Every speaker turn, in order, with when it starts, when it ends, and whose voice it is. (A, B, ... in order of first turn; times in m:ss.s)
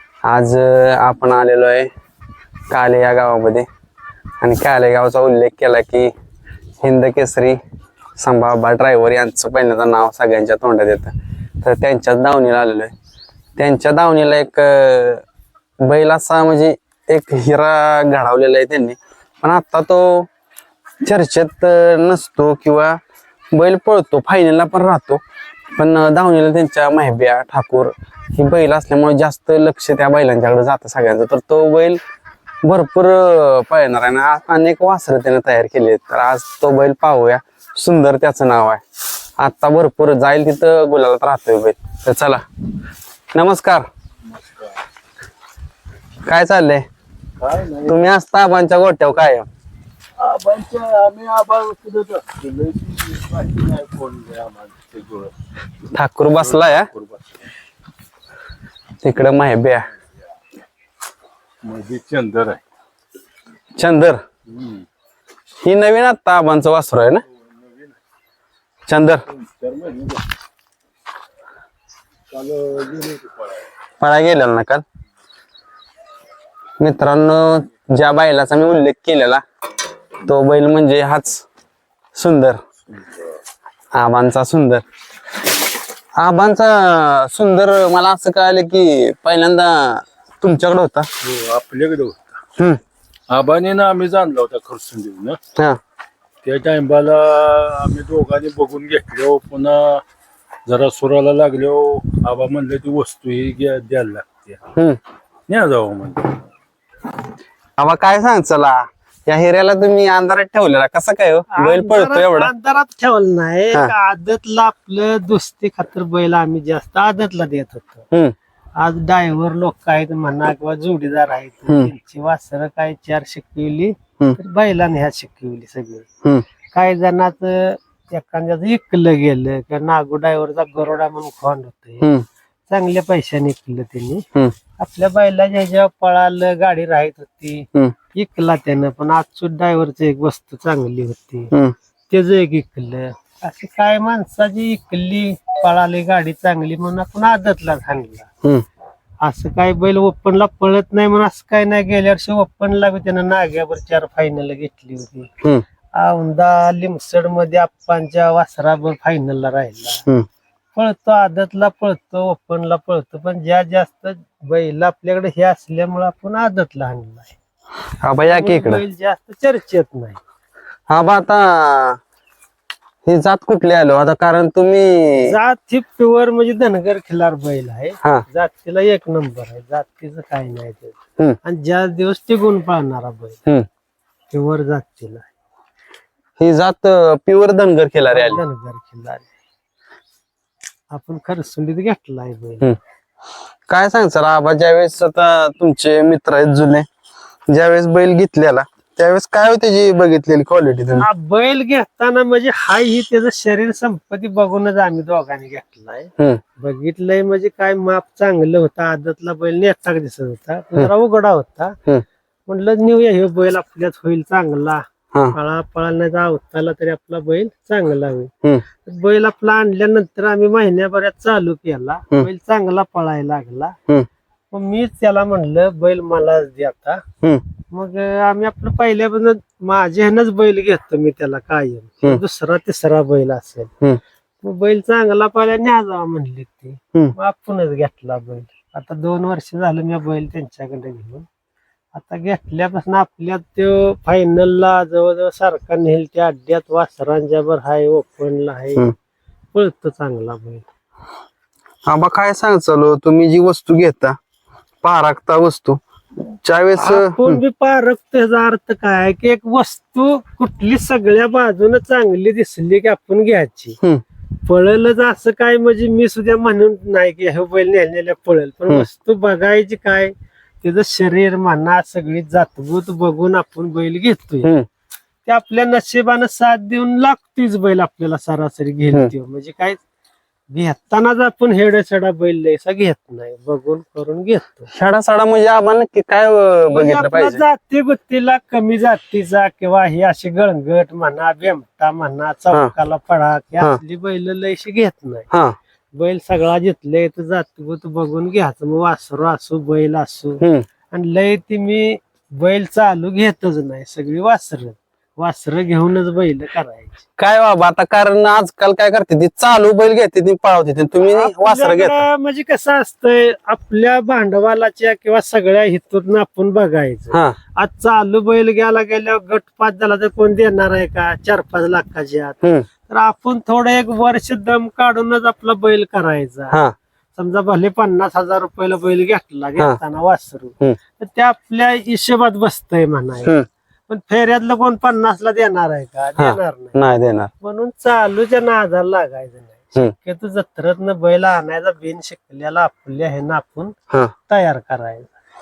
0:00.2-0:01.9 A
0:02.7-0:03.6 A
0:04.4-0:06.1 A
0:06.8-0:07.6 A
0:08.2-0:12.9 A
0:13.6-0:15.2 A
0:15.8-0:20.3 A
0:21.0-0:23.0 A
0:23.5-0:25.2 A
0:25.8-0:32.0 A
0:32.6-0:38.8 A
0:39.4-0:42.4 A
0:43.3-0:43.9 A
0:44.3-0:44.7 B
0:46.2-0:46.8 A
0:47.4-0:48.1 B
0:47.9-0:49.5 A
0:50.2-0:55.4 B
0:55.9-0:56.9 A
0:56.4-0:57.2 B
0:59.0-0:59.8 A
1:01.6-1:02.6 B
1:03.8-1:04.2 A
1:04.5-1:04.8 B
1:05.6-1:07.2 A
1:08.9-1:09.2 A
1:09.4-1:10.2 B
1:12.3-1:13.5 B
1:14.0-1:14.8 A
1:16.8-1:19.4 A
1:20.2-1:21.4 A
1:22.1-1:22.6 A
1:23.9-1:24.8 A
1:26.1-1:31.1 A
1:31.2-1:32.4 B
1:33.3-1:35.4 B
1:36.4-1:40.0 B
1:40.6-1:44.6 B
1:45.5-1:46.4 B
1:47.8-1:52.5 A
1:51.5-1:58.0 C
1:58.8-2:06.1 C
2:06.7-2:12.0 C
2:12.7-2:21.5 C
2:22.1-2:28.3 C
2:29.2-2:35.3 C
2:35.9-2:40.0 C
2:40.8-2:47.3 C
2:48.0-2:48.8 A
2:48.2-2:50.2 C
2:50.9-2:52.0 A
2:53.0-2:55.3 A
2:55.2-3:03.4 C
3:04.3-3:05.3 C
3:06.4-3:08.4 A
3:08.1-3:09.3 C
3:10.9-3:12.7 C
3:13.7-3:16.9 A
3:17.5-3:21.1 A
3:20.9-3:31.8 C
3:32.5-3:38.3 C
3:38.8-3:43.8 C
3:44.5-3:47.0 C
3:47.7-3:53.7 C
3:54.4-4:01.3 C
4:01.9-4:08.9 C
4:09.5-4:10.6 C
4:11.8-4:14.2 A
4:14.8-4:17.4 A
4:16.7-4:23.8 C
4:24.4-4:34.5 C
4:35.2-4:39.8 C
4:40.5-4:44.7 C
4:44.7-4:47.4 A
4:46.7-4:55.3 C
4:55.3-4:55.6 A
4:55.9-5:07.0 C
5:00.4-5:00.6 A
5:07.2-5:12.0 A
5:11.0-5:26.6 C
5:17.1-5:17.4 A
5:27.2-5:33.4 C
5:33.9-5:43.8 C
5:36.2-5:37.3 A
5:44.3-5:45.1 C